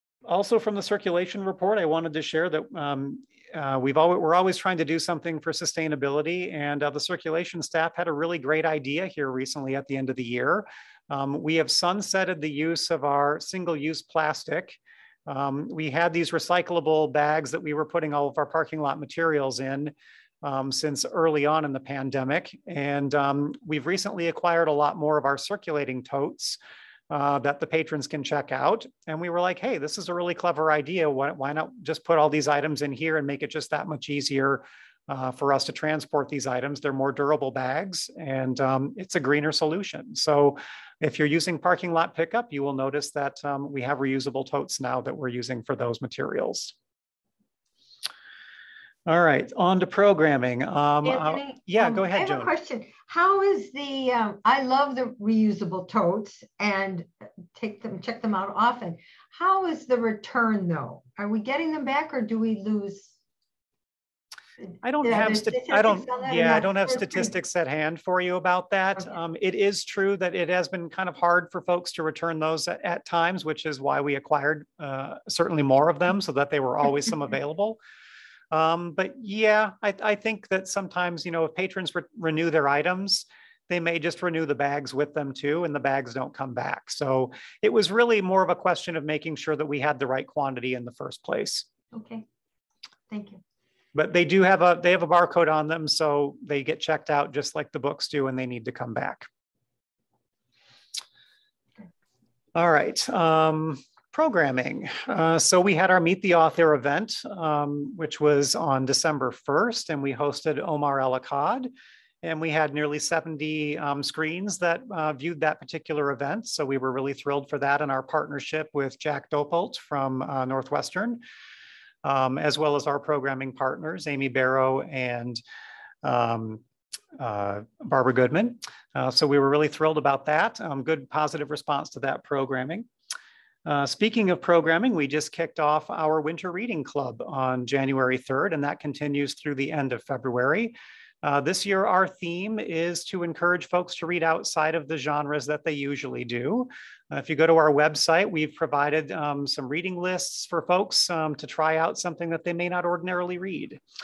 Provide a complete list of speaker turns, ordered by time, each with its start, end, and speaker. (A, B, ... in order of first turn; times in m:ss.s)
0:00.2-0:26.6 A
0:27.1-0:46.7 A
0:49.1-0:52.5 A
0:51.0-1:03.1 B
1:04.8-1:17.8 A
1:05.0-1:07.3 B
1:18.5-1:31.6 A
1:31.9-1:32.2 B
1:33.1-1:33.4 B
1:33.9-1:39.3 A
1:42.5-1:51.7 A
1:52.2-2:01.2 A
2:02.0-2:05.4 A
2:06.0-2:06.6 A
2:07.2-2:12.9 A
2:13.6-2:33.8 A